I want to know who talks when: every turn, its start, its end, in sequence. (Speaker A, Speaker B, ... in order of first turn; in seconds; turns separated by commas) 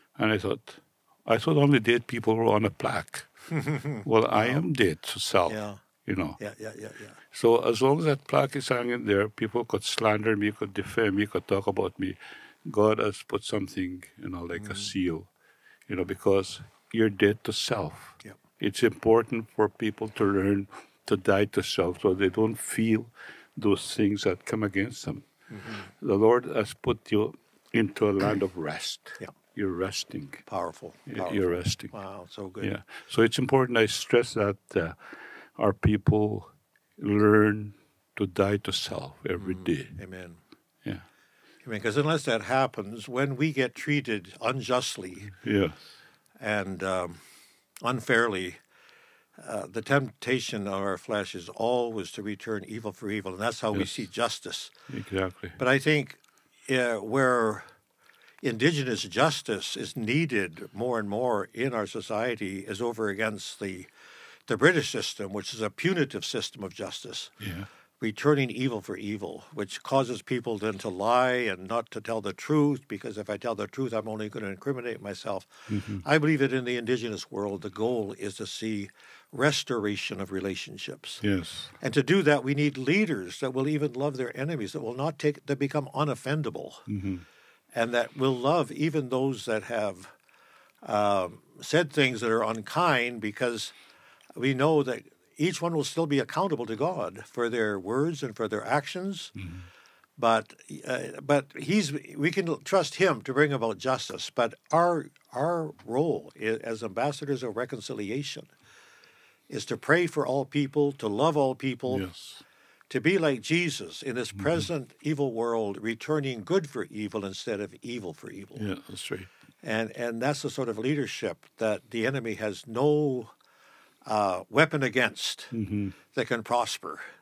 Speaker A: 0.2-3.3, Speaker B: 3.5-4.6, Speaker A: 4.0-6.4, Speaker B: 5.5-5.8, Speaker B: 6.4-7.2, Speaker A: 7.3-15.3, Speaker B: 14.6-14.9, Speaker A: 15.9-25.3, Speaker B: 25.5-25.9, Speaker A: 25.9-30.5, Speaker B: 30.5-32.8, Speaker A: 31.1-31.9, Speaker A: 32.6-35.0, Speaker A: 35.6-40.0, Speaker B: 39.4-40.4, Speaker B: 41.6-45.3, Speaker A: 45.3-45.8, Speaker B: 46.4-47.2, Speaker B: 47.8-48.6, Speaker B: 49.4-54.7, Speaker A: 54.9-55.6, Speaker B: 55.6-57.7, Speaker B: 58.4-63.9, Speaker B: 64.5-67.3, Speaker A: 67.4-67.7, Speaker B: 68.0-81.2, Speaker A: 75.7-76.0, Speaker A: 81.2-81.7, Speaker B: 81.8-86.9, Speaker A: 86.9-87.2, Speaker B: 87.7-90.1, Speaker B: 90.8-93.8, Speaker B: 94.4-99.3, Speaker A: 99.4-99.7, Speaker B: 100.2-108.5, Speaker B: 109.5-112.1, Speaker A: 111.9-112.4, Speaker B: 112.9-118.7, Speaker A: 114.4-114.6, Speaker A: 118.6-119.3, Speaker B: 119.6-123.3, Speaker B: 124.1-125.5, Speaker A: 125.5-126.0, Speaker B: 126.1-127.1